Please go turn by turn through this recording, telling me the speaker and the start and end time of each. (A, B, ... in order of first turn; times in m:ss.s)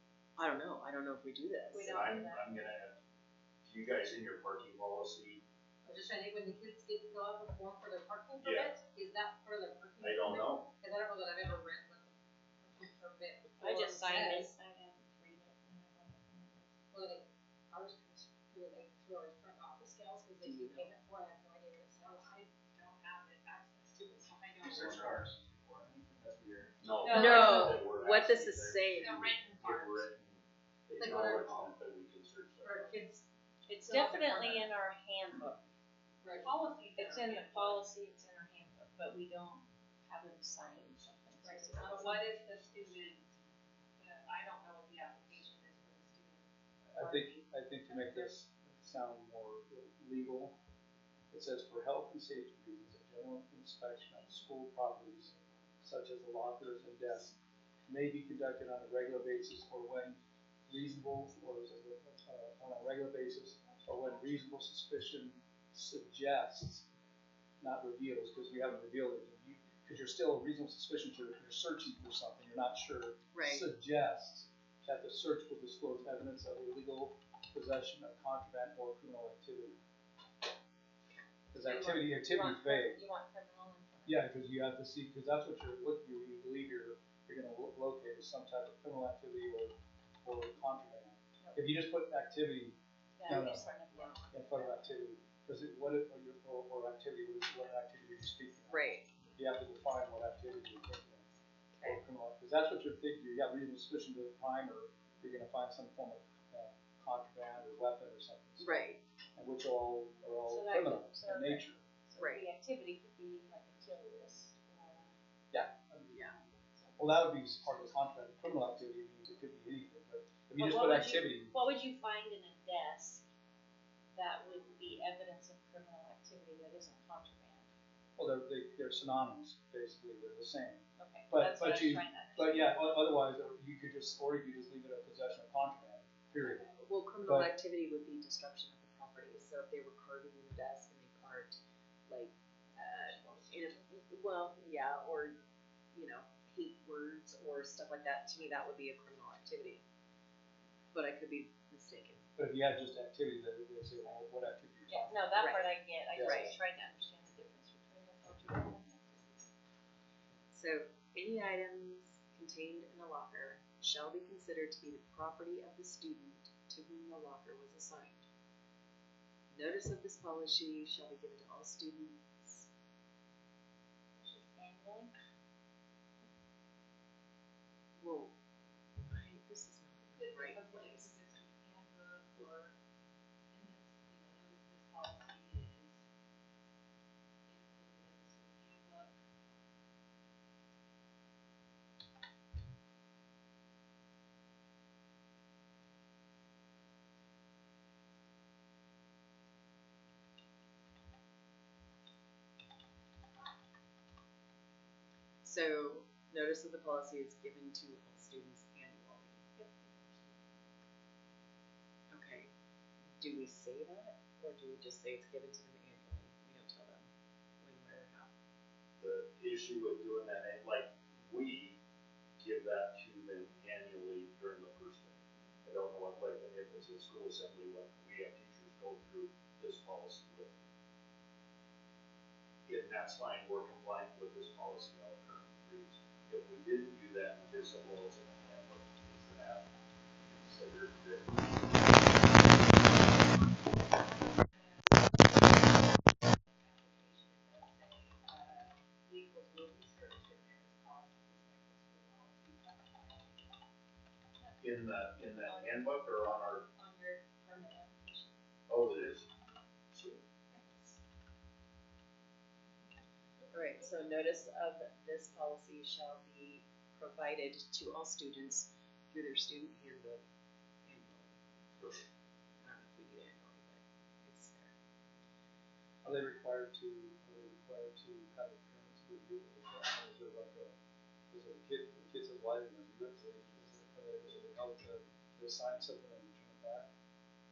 0:00.4-0:02.0 A
0:01.7-0:02.5 B
0:01.8-0:03.0 C
0:03.6-0:05.4 C
0:05.9-0:12.1 D
0:08.4-0:08.7 C
0:10.0-0:10.7 C
0:10.9-0:11.4 B
0:12.6-0:14.5 D
0:13.5-0:17.2 B
0:16.9-0:25.2 D
0:20.4-0:20.9 A
0:24.8-0:25.3 C
0:24.9-0:26.6 E
0:26.8-0:32.9 C
0:27.0-0:27.9 B
0:27.1-0:29.1 A
0:27.3-0:27.8 D
0:28.9-0:30.0 D
0:29.1-0:29.6 B
0:31.0-0:31.8 D
0:32.6-0:33.2 D
0:33.7-0:35.6 B
0:33.9-0:34.7 D
0:36.2-0:37.7 D
0:36.2-0:42.4 B
0:41.4-0:43.3 D
0:44.0-0:46.4 D
0:46.9-0:50.6 E
0:47.0-0:48.3 B
0:51.3-0:57.4 E
0:57.9-1:06.9 E
1:03.7-1:04.3 B
1:07.6-1:19.8 E
1:13.3-1:13.7 A
1:21.5-1:23.0 E
1:21.6-1:24.2 B
1:24.1-1:41.3 E
1:33.2-1:34.7 B
1:34.0-1:34.7 A
1:38.7-1:39.1 A
1:41.8-1:51.8 E
1:48.6-1:49.0 A
1:50.4-1:55.2 B
1:52.2-1:52.5 A
1:55.5-1:56.4 E
1:56.1-1:56.4 A
1:57.0-2:01.6 E
2:00.6-2:03.2 B
2:04.1-2:07.7 B
2:08.2-2:16.7 E
2:11.0-2:13.1 B
2:16.5-2:25.4 A
2:17.2-2:17.5 E
2:23.1-2:23.8 B
2:25.9-2:29.8 A
2:30.9-2:32.2 A
2:32.4-2:35.5 E
2:34.9-2:39.4 B
2:35.3-2:36.7 A
2:36.1-2:36.6 E
2:40.5-2:48.3 A
2:49.5-2:52.7 A
2:54.2-2:55.1 B
2:58.0-2:58.3 A
2:59.0-3:01.2 A
3:00.2-3:02.6 D
3:01.0-3:02.7 B
3:03.5-3:05.0 B
3:04.8-3:05.3 D
3:07.5-3:07.9 B
3:25.4-3:29.5 A
3:29.6-3:30.6 B
3:32.1-3:32.5 A
3:33.2-3:37.1 A
3:37.6-3:38.3 A
3:39.0-3:41.8 C
3:42.4-3:50.7 C
3:52.6-3:59.7 C
4:00.2-4:02.0 C
4:04.5-4:05.0 A
4:06.7-4:13.4 A
4:14.4-4:18.4 B
4:14.6-4:16.7 C
4:18.7-4:19.3 C
4:19.9-4:20.2 C
4:20.5-4:20.8 B
4:23.5-4:30.2 A
4:30.8-4:31.4 A
4:32.6-4:34.7 A
4:36.0-4:40.8 E
4:41.3-4:46.9 E